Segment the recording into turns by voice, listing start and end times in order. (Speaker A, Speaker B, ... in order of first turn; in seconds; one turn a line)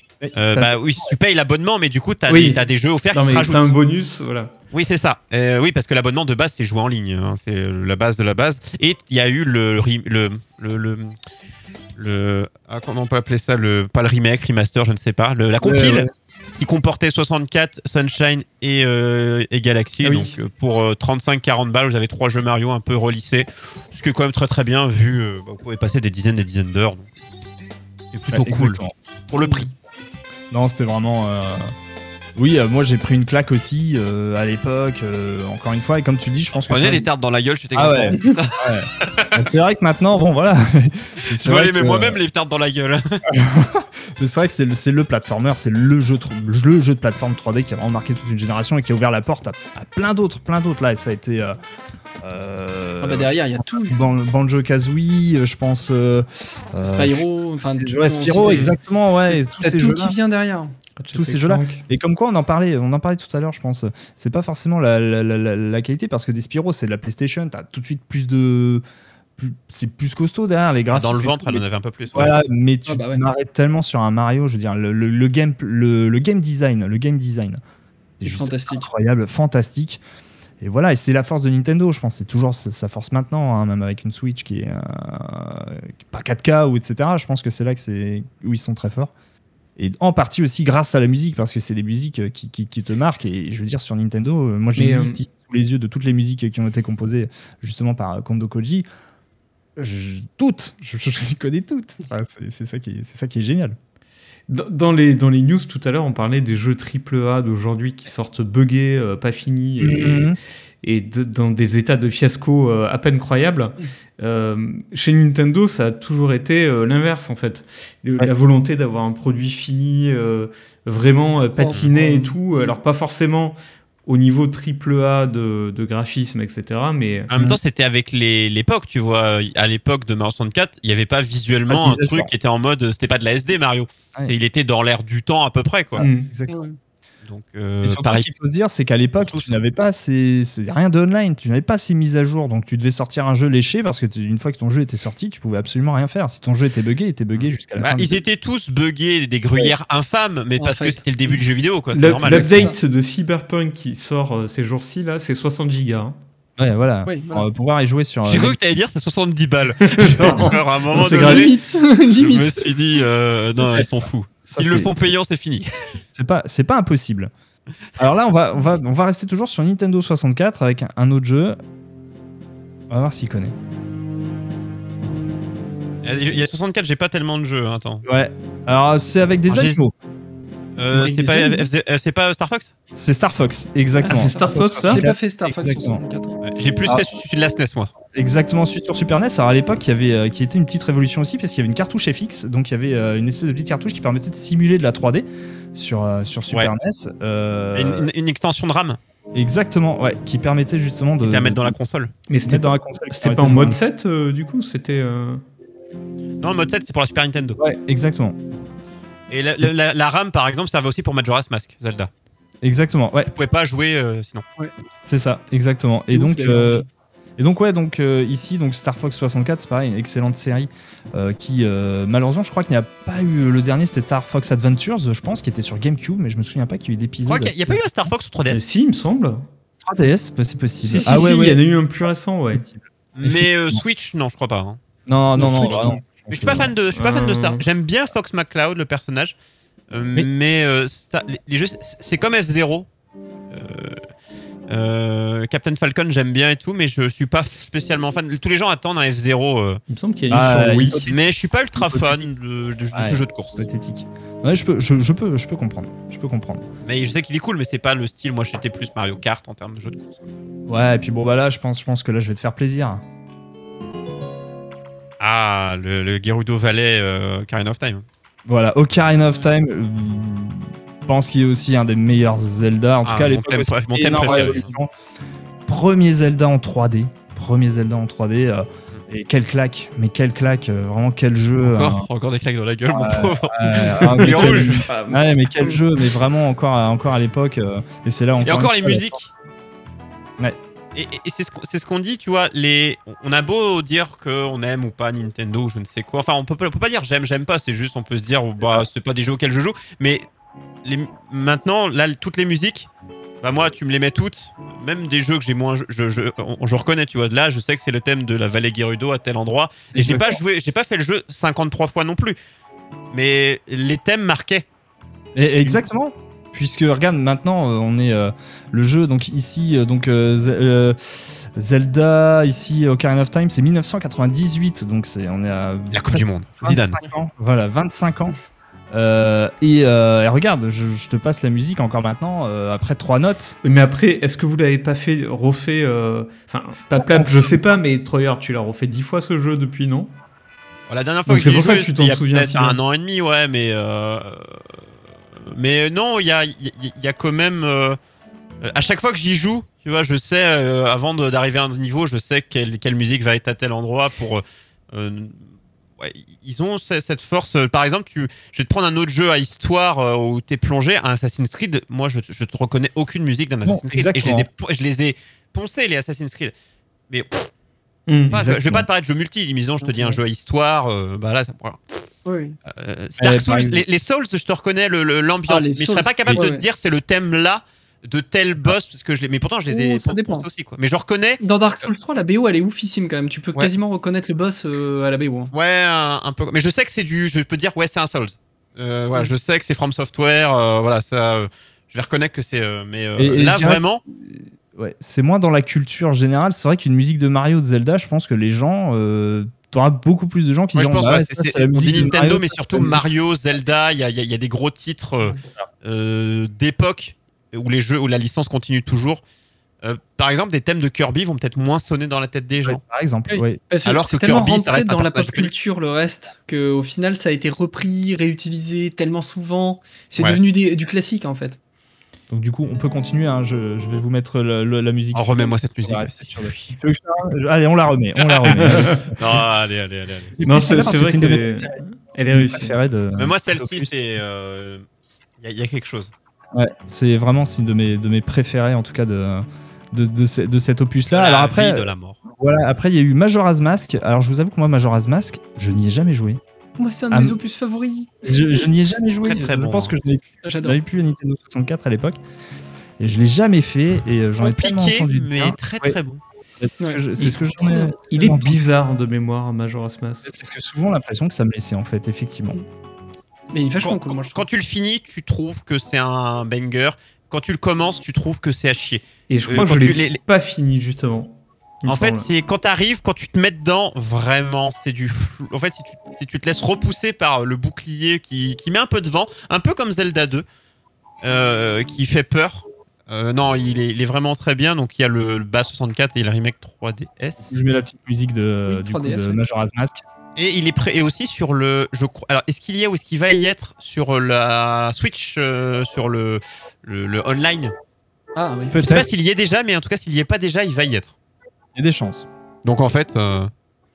Speaker A: 0.2-1.1
Speaker B: 0.3-3.7
Speaker C: 2.3-4.5
Speaker B: 4.7-11.1
Speaker B: 11.9-27.1
Speaker A: 15.6-16.1
Speaker C: 20.0-20.3
Speaker B: 28.1-29.7
Speaker A: 28.3-28.9
Speaker D: 29.4-29.6
Speaker A: 30.5-31.7
Speaker A: 32.4-37.1
Speaker B: 36.7-39.4
Speaker A: 37.7-42.2
Speaker B: 41.2-43.3
Speaker A: 43.3-51.6
Speaker A: 52.2-60.1
Speaker D: 53.0-54.0
Speaker D: 56.8-58.7
Speaker D: 59.3-60.7
Speaker C: 61.0-61.8
Speaker A: 61.1-68.8
Speaker A: 69.4-77.6
Speaker B: 70.9-72.4
Speaker D: 72.9-73.2
Speaker A: 78.2-80.0
Speaker D: 78.2-78.9
Speaker A: 80.6-89.1
Speaker A: 89.8-98.8
Speaker C: 94.8-95.2
Speaker A: 99.8-103.8
Speaker C: 104.5-127.3
Speaker A: 109.8-110.4
Speaker D: 121.6-122.7
Speaker B: 127.3-136.0
Speaker A: 131.7-132.3
Speaker A: 135.9-136.6
Speaker C: 136.0-136.3
Speaker D: 136.5-136.8
Speaker B: 137.2-138.3
Speaker A: 137.8-148.2
Speaker B: 139.2-139.6
Speaker B: 147.3-152.7
Speaker D: 150.6-151.4
Speaker C: 151.9-156.2
Speaker D: 152.2-152.7
Speaker A: 156.6-158.6
Speaker D: 157.1-157.5
Speaker B: 158.2-161.6
Speaker C: 159.8-161.5
Speaker D: 161.1-162.7
Speaker B: 162.1-165.7
Speaker A: 164.5-164.9
Speaker A: 166.1-167.3
Speaker A: 167.9-171.6
Speaker A: 172.9-173.5
Speaker B: 176.0-178.0
Speaker A: 178.0-179.9
Speaker B: 179.5-179.8
Speaker B: 180.8-182.7
Speaker D: 181.2-181.4
Speaker A: 182.9-186.0
Speaker C: 184.0-185.0
Speaker D: 184.0-186.4
Speaker B: 186.4-187.9
Speaker A: 188.1-198.1
Speaker B: 197.7-199.0
Speaker A: 199.3-201.7
Speaker B: 201.2-202.1
Speaker C: 202.3-205.4
Speaker A: 202.4-203.8
Speaker B: 206.4-207.6
Speaker A: 207.6-208.4
Speaker B: 209.3-212.1
Speaker A: 212.6-213.3
Speaker B: 213.2-214.4
Speaker A: 215.0-216.8
Speaker D: 216.1-216.8
Speaker A: 217.4-227.8
Speaker B: 227.2-228.6
Speaker C: 228.5-229.4
Speaker A: 229.8-231.6
Speaker C: 230.8-232.6
Speaker A: 232.5-233.8
Speaker B: 233.2-234.8
Speaker A: 235.1-236.7
Speaker B: 235.4-239.3
Speaker D: 235.4-235.7
Speaker C: 236.9-237.6
Speaker B: 239.9-242.9
Speaker B: 243.5-244.0
Speaker B: 244.7-249.8
Speaker C: 249.9-251.1
Speaker A: 250.3-251.2
Speaker B: 251.1-253.6
Speaker A: 251.8-252.2
Speaker A: 252.9-256.6
Speaker B: 256.8-260.2
Speaker A: 260.7-263.0
Speaker B: 265.2-268.0
Speaker A: 268.4-274.9
Speaker B: 273.0-274.7
Speaker D: 274.3-274.5
Speaker A: 275.6-282.0
Speaker B: 281.6-285.2
Speaker A: 282.9-289.2
Speaker C: 284.0-284.9
Speaker B: 288.4-289.3
Speaker B: 290.9-300.2
Speaker B: 300.8-302.9
Speaker B: 303.4-312.4
Speaker A: 309.9-310.4
Speaker B: 313.1-314.6
Speaker A: 315.4-328.3
Speaker B: 325.9-327.0
Speaker A: 328.9-333.6
Speaker C: 333.6-340.1
Speaker A: 337.0-337.6
Speaker B: 340.9-344.6
Speaker C: 341.3-342.8
Speaker B: 345.5-348.0
Speaker B: 348.6-355.4
Speaker B: 356.0-366.5
Speaker A: 363.6-364.5
Speaker B: 367.1-367.5
Speaker C: 368.1-368.4
Speaker B: 368.3-372.0
Speaker A: 368.3-368.9
Speaker D: 369.8-370.2
Speaker D: 372.2-372.6
Speaker B: 372.7-381.4
Speaker A: 373.2-373.8
Speaker D: 375.5-376.6
Speaker D: 379.7-380.5
Speaker D: 381.4-385.5
Speaker B: 385.5-394.0
Speaker A: 393.2-403.0
Speaker B: 400.7-409.2
Speaker B: 409.8-412.8
Speaker A: 412.6-413.6
Speaker D: 413.3-421.6
Speaker B: 413.8-415.5
Speaker A: 422.3-429.1
Speaker B: 425.1-426.7
Speaker B: 428.2-430.3
Speaker C: 428.5-429.1
Speaker A: 430.3-431.8
Speaker C: 430.4-432.8
Speaker A: 432.3-433.9
Speaker B: 433.1-434.9
Speaker B: 435.4-436.1
Speaker A: 436.5-446.4
Speaker B: 441.1-442.2
Speaker D: 446.8-448.1
Speaker A: 447.1-447.4
Speaker A: 448.2-452.2
Speaker B: 449.2-449.9
Speaker D: 450.4-450.8
Speaker A: 453.0-455.9
Speaker B: 454.4-456.2
Speaker A: 456.6-458.6
Speaker C: 457.2-460.4
Speaker A: 460.2-462.6
Speaker D: 463.5-464.4
Speaker B: 463.5-470.2
Speaker C: 469.3-472.3
Speaker B: 471.9-480.4
Speaker B: 481.2-487.5
Speaker A: 487.5-490.0
Speaker D: 488.7-489.4
Speaker B: 490.4-497.7
Speaker D: 498.3-498.7
Speaker A: 498.7-499.1
Speaker B: 498.7-501.1
Speaker A: 501.7-502.2
Speaker B: 502.6-503.5